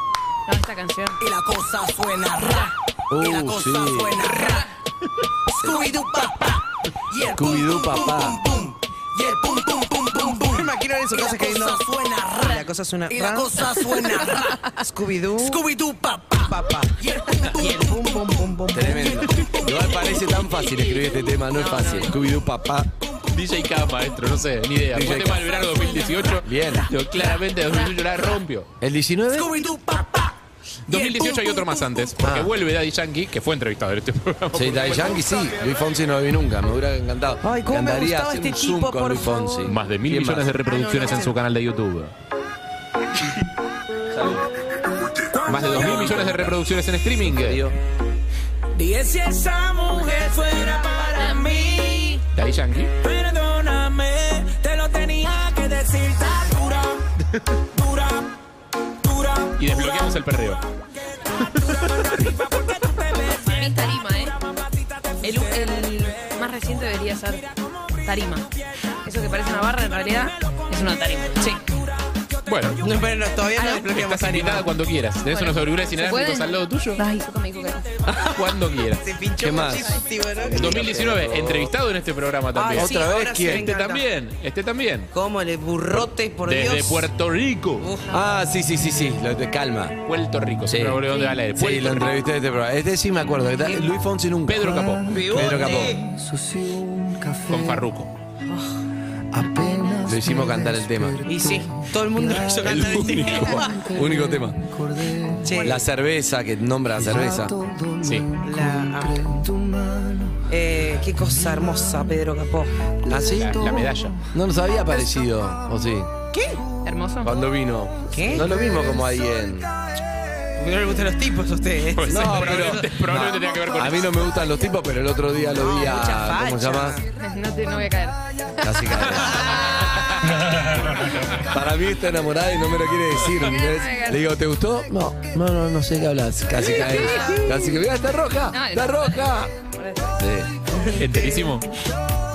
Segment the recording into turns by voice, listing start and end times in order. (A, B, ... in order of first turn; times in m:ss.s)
0:00.5-0:01.2 A
0:01.2-0:04.7 B
0:03.1-0:04.2 C
0:05.6-0:14.7 B
0:05.6-0:06.3 D
0:07.3-0:08.4 C
0:10.2-0:11.8 D
0:12.4-0:15.6 D
0:15.4-0:20.0 B
0:16.5-0:19.1 D
0:18.7-0:22.9 C
0:21.5-0:22.1 A
0:23.3-0:28.7 E
0:24.9-0:25.6 C
0:26.4-0:26.9 C
0:28.8-0:29.5 C
0:29.3-0:30.3 B
0:30.9-0:35.4 E
0:30.9-0:32.0 B
0:32.2-0:32.5 C
0:34.5-0:40.5 C
0:37.4-0:39.7 D
0:39.6-0:42.1 E
0:40.7-0:41.3 D
0:44.1-0:44.4 C
0:45.5-0:47.6 E
0:45.5-0:46.5 C
0:47.2-0:47.8 C
0:48.8-0:52.2 B
0:51.2-0:52.1 A
0:52.3-0:52.9 E
0:53.0-0:57.0 B
0:57.8-0:58.2 B
0:59.1-0:59.5 B
0:59.6-1:00.6 E
1:03.3-1:04.4 A
1:05.2-1:07.5 A
1:08.0-1:08.5 A
1:09.0-1:11.5 A
1:12.5-1:12.8 E
1:12.8-1:14.7 D
1:13.6-1:13.8 A
1:13.9-1:17.0 E
1:15.3-1:17.8 A
1:18.1-1:20.8 D
1:18.3-1:19.0 E
1:19.4-1:21.7 C
1:20.5-1:25.1 E
1:22.6-1:24.0 D
1:22.7-1:23.7 C
1:25.1-1:27.1 D
1:25.9-1:27.9 E
1:27.8-1:28.2 D
1:28.1-1:30.0 C
1:30.1-1:32.2 E
1:30.7-1:36.0 C
1:34.5-1:35.2 E
1:35.1-1:36.0 D
1:37.5-1:38.1 E
1:40.0-1:41.3 C
1:41.3-1:44.0 D
1:42.5-1:44.6 C
1:45.4-1:45.8 D
1:45.6-1:47.6 C
1:48.0-1:48.3 E
1:48.4-1:49.3 D
1:50.5-1:52.7 D
1:53.1-1:53.7 C
1:53.2-1:54.2 E
1:54.3-1:56.1 C
1:56.3-1:56.6 D
1:56.8-1:57.3 A
1:57.2-1:59.7 C
1:58.1-1:58.6 D
2:00.6-2:02.8 D
2:02.0-2:04.2 E
2:02.1-2:07.0 C
2:05.6-2:07.0 D
2:07.2-2:08.2 A
2:08.6-2:09.6 C
2:09.1-2:11.4 E
2:09.3-2:10.0 D
2:11.4-2:19.5 C
2:13.4-2:14.2 A
2:16.6-2:17.8 A
2:18.5-2:20.2 A
2:20.2-2:20.5 C
2:21.0-2:21.7 E